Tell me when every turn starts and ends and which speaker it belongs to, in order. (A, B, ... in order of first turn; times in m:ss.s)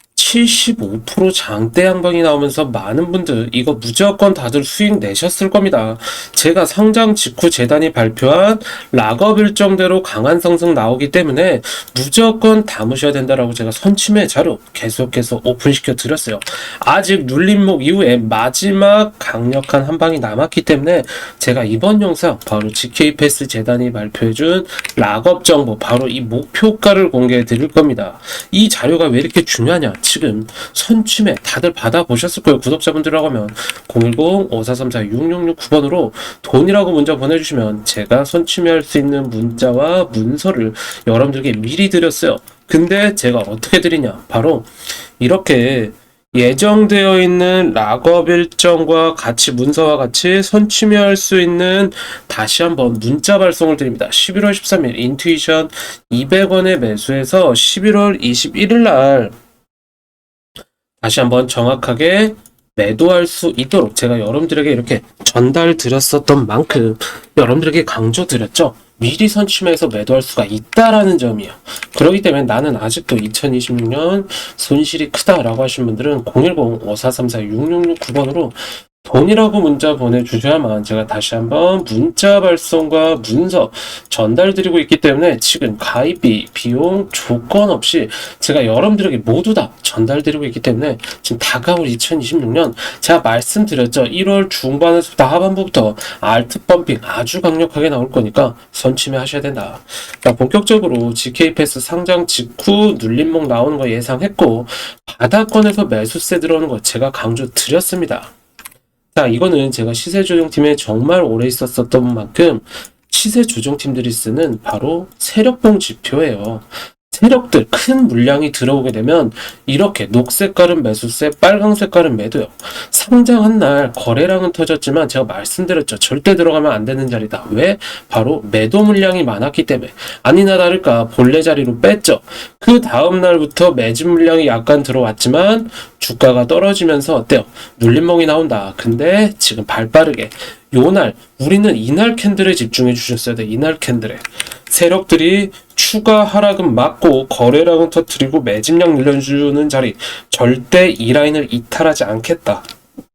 0:00.1-0:59.3 A
1:01.0-1:48.3 A
1:49.1-2:32.6 A